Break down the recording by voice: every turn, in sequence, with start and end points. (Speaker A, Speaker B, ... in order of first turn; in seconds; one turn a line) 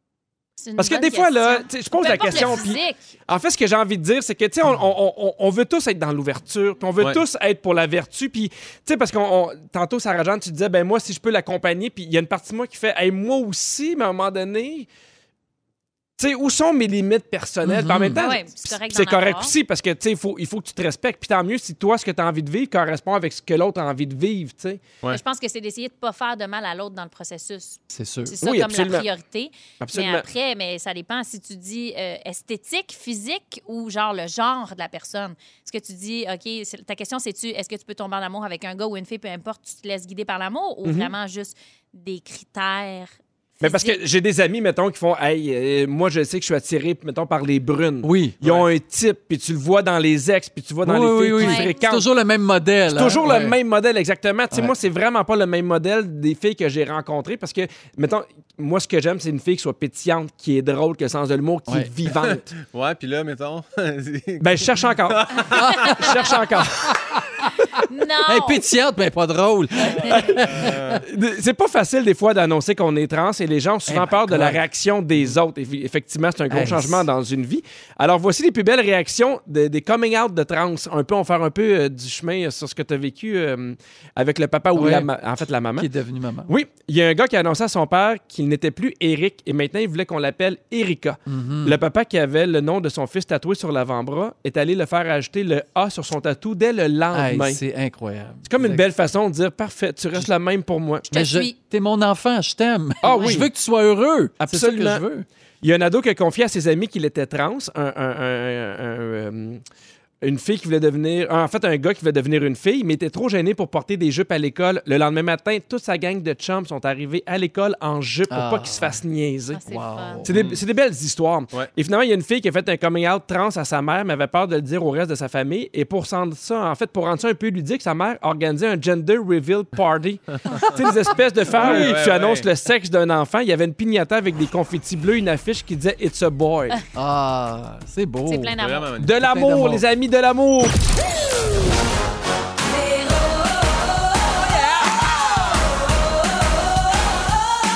Speaker A: 0.6-3.0
Speaker B: 0.8-14.9
Speaker B: 16.2-24.8
Speaker C: 17.6-18.2
Speaker A: 18.1-19.5
Speaker A: 25.1-44.0
Speaker C: 27.9-28.3
Speaker B: 28.4-29.1
Speaker B: 29.8-30.2
Speaker B: 40.8-41.1
Speaker B: 43.6-52.1
Speaker C: 48.0-48.4
Speaker D: 48.4-48.7
Speaker C: 50.8-53.6
Speaker A: 51.4-51.7
Speaker B: 52.9-62.5
Speaker D: 62.1-66.0
Speaker B: 64.4-66.9
Speaker C: 65.6-66.0
Speaker C: 66.6-67.2
Speaker A: 67.8-68.6
Speaker C: 68.2-71.0
Speaker D: 69.9-71.0
Speaker B: 71.0-85.9
Speaker C: 73.9-74.6
Speaker C: 76.5-77.0
Speaker C: 84.7-85.1
Speaker C: 85.8-86.5
Speaker B: 86.5-97.6
Speaker C: 91.3-91.8
Speaker C: 97.1-98.8
Speaker B: 98.5-101.1
Speaker A: 101.1-101.5
Speaker C: 101.1-105.2
Speaker B: 103.0-103.5
Speaker A: 103.1-103.3
Speaker B: 104.4-105.0
Speaker B: 105.6-109.6
Speaker B: 110.2-119.6
Speaker C: 118.3-119.0
Speaker A: 119.5-120.2
Speaker C: 119.6-120.4
Speaker B: 120.2-136.8
Speaker D: 120.3-120.6
Speaker D: 131.5-132.5
Speaker C: 131.6-132.0
Speaker C: 136.9-139.8
Speaker A: 138.2-138.9
Speaker D: 138.6-139.1
Speaker B: 139.0-140.7